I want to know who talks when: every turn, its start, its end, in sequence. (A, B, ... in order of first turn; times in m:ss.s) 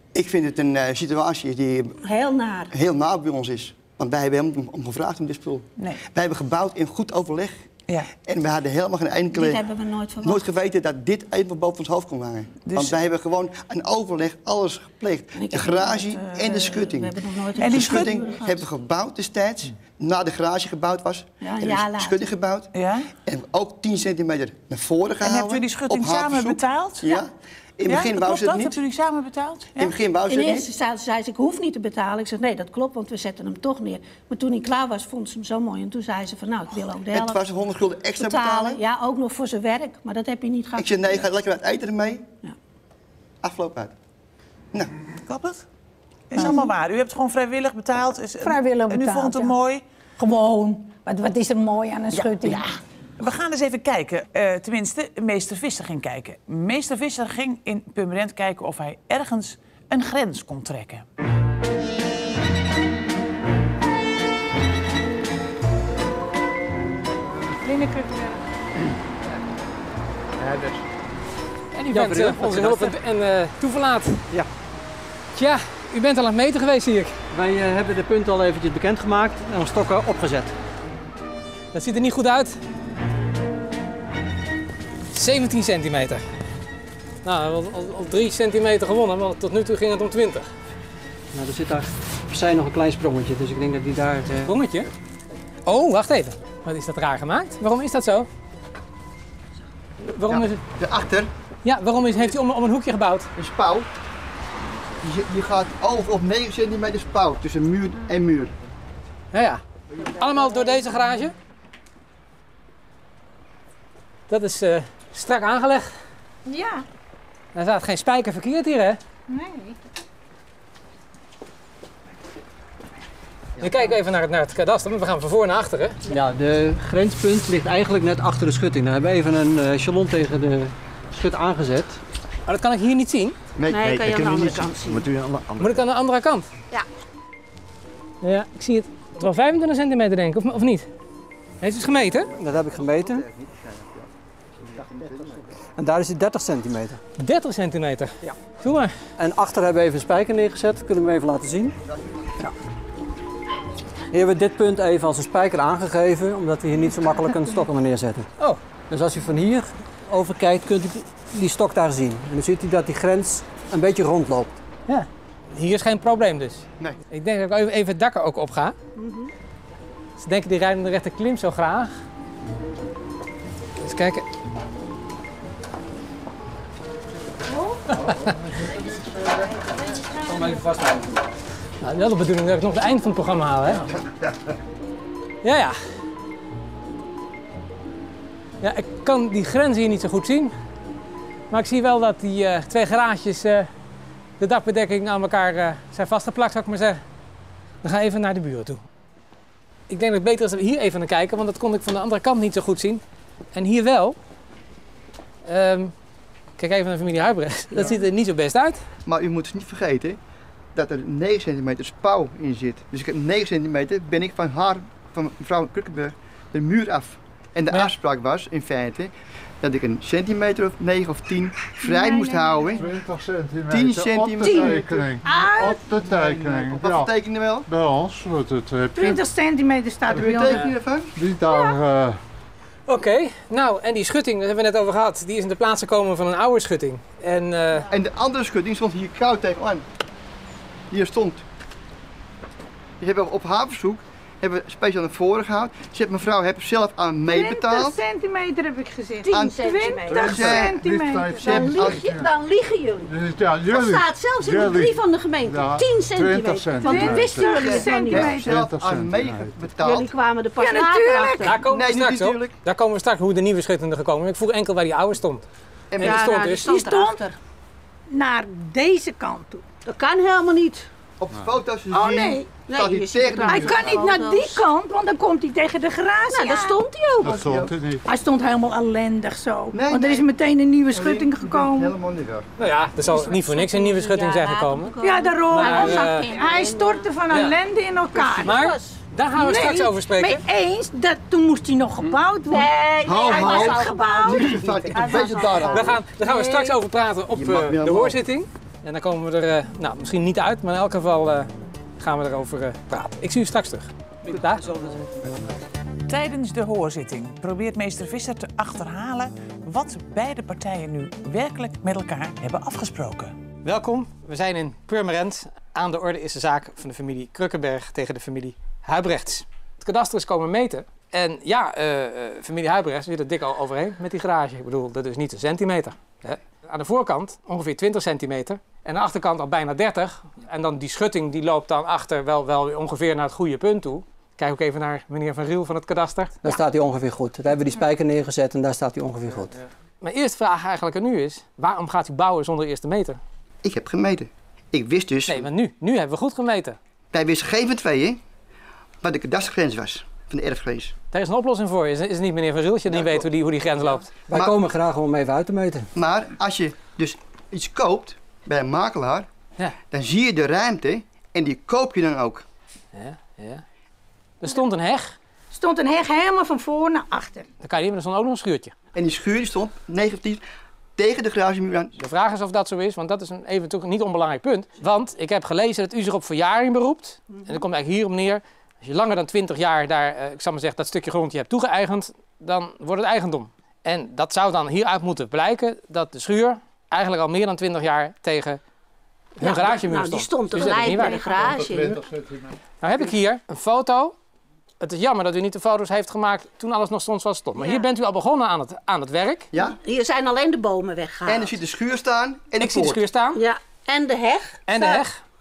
0:00.1-0:02.0 A
0:02.0-0:02.7 B
0:02.7-0:09.7 A
0:09.3-0:10.4 B
0:10.2-0:22.7 A
0:12.6-0:13.0 C
0:15.4-0:18.7 B
0:17.6-0:18.2 C
0:21.4-0:22.2 B
0:22.7-0:23.1 C
0:23.2-0:28.8 A
0:25.2-0:27.2 C
0:27.9-0:30.0 C
0:29.8-0:30.7 A
0:30.3-0:37.4 B
0:37.1-0:38.8 A
0:38.2-0:41.3 B
0:40.7-0:42.3 A
0:43.4-0:43.9 A
0:45.2-0:45.6 C
0:46.3-0:49.8 C
0:46.4-0:46.7 D
0:48.4-0:49.6 D
0:50.2-0:52.6 D
0:52.1-1:01.0 C
1:07.6-1:08.4 D
1:10.4-1:10.8 E
1:11.7-1:14.3 F
1:11.9-1:12.9 E
1:15.3-1:17.2 F
1:17.3-1:20.6 E
1:21.7-1:22.6 F
1:25.1-1:26.2 F
1:27.2-1:30.5 F
1:31.3-1:34.6 E
1:34.4-1:34.9 F
1:35.7-1:38.3 F
1:40.0-1:40.6 F
1:40.3-1:41.3 A
1:41.6-1:43.3 F
1:43.4-1:43.9 A
1:45.0-1:48.5 A
1:49.3-1:51.3 F
1:54.3-1:56.0 F
1:56.4-1:56.8 D
1:57.5-1:59.0 F
1:59.3-1:59.8 D
2:03.6-2:03.9 A
2:03.6-2:06.0 F
2:06.1-2:12.0 E
2:12.4-2:13.4 F
2:13.6-2:15.8 A
2:13.7-2:15.1 B
2:15.6-2:16.5 F
2:18.2-2:20.9 F
2:21.6-2:22.3 F
2:22.3-2:23.2 E
2:22.9-2:24.1 A
2:24.6-2:25.5 A
2:25.8-2:27.0 E
2:27.2-2:28.9 F
2:29.2-2:31.8 E
2:31.9-2:32.3 A
2:34.1-2:38.3 E
2:38.9-2:44.6 E
2:44.9-2:48.7 F
2:49.0-2:49.3 B
2:50.2-2:51.9 F
2:53.8-2:54.2 F
2:58.6-2:59.4 G
3:00.2-3:01.1 E
3:01.8-3:03.8 F
3:05.4-3:05.8 F
3:08.6-3:10.5 F
3:11.5-3:13.7 F
3:14.4-3:17.0 F
3:17.8-3:18.8 F
3:19.9-3:23.0 F
3:23.5-3:24.2 F
3:25.4-3:25.9 F
3:26.6-3:28.8 F
3:29.1-3:30.2 A
3:30.7-3:42.9 A
3:41.8-3:42.8 D
3:42.8-3:47.1 G
3:43.7-3:45.1 A
3:44.4-3:45.8 D
3:46.0-3:47.7 A
3:47.7-3:49.2 G
3:49.0-3:50.6 D
3:50.1-3:51.1 A
3:51.2-3:52.2 G
3:51.4-3:51.8 D
3:52.9-3:57.9 F
3:57.9-3:59.8 A
4:00.9-4:01.4 A
4:03.0-4:08.0 A
4:07.2-4:11.9 D
4:09.2-4:10.6 B
4:09.3-4:10.8 A
4:10.2-4:12.3 G
4:11.4-4:18.4 B
4:11.7-4:12.0 A
4:13.1-4:19.7 G
4:16.8-4:18.4 D
4:17.6-4:20.1 A
4:19.8-4:21.6 B
4:20.6-4:21.5 D
4:21.4-4:25.4 F
4:21.6-4:22.5 A
4:25.9-4:26.3 A
4:26.0-4:26.7 F
4:26.0-4:27.4 B
4:26.6-4:27.2 D
4:28.1-4:29.6 D
4:29.8-4:30.9 B
4:31.2-4:34.1 A
4:31.9-4:32.5 D
4:32.7-4:34.6 B
4:33.4-4:36.7 D
4:36.3-4:37.4 B
4:37.2-4:38.0 G
4:37.2-4:37.7 A
4:38.1-4:41.9 D
4:39.7-4:40.2 A
4:40.9-4:42.4 A
4:42.6-4:44.9 F
4:43.1-4:47.1 B
4:45.0-4:48.5 D
4:45.5-4:46.3 F
4:48.1-4:49.0 B
4:48.4-4:50.4 F
4:49.4-4:56.7 D
4:52.5-4:55.9 B
4:53.0-4:56.0 A
4:55.7-5:04.7 F
4:57.3-4:58.2 A
5:06.1-5:13.4 C
5:13.6-5:36.5 F
5:36.4-5:39.5 E
5:40.0-5:43.2 F
5:43.6-5:45.5 A
5:45.3-5:46.8 F
5:47.1-5:48.2 A
5:49.0-5:50.9 A
5:51.1-5:54.2 F
5:52.9-5:53.2 A
5:54.3-5:55.9 E
5:54.3-5:54.6 A
5:55.9-5:59.3 A
5:59.9-6:02.4 A
6:02.9-6:03.6 F
6:04.4-6:05.2 F
6:05.5-6:07.5 D
6:07.6-6:08.7 F
6:08.9-6:10.4 A
6:11.0-6:12.0 A
6:12.0-6:28.6 F
6:29.4-6:31.6 F
6:29.4-6:32.0 B
6:31.3-6:32.6 G
6:32.8-6:34.2 F
6:34.8-6:39.5 F
6:37.6-6:37.8 B
6:39.5-6:39.8 A
6:39.8-6:41.5 B
6:41.2-6:43.0 A
6:42.6-6:43.4 F
6:43.3-6:45.0 B
6:44.7-6:45.2 F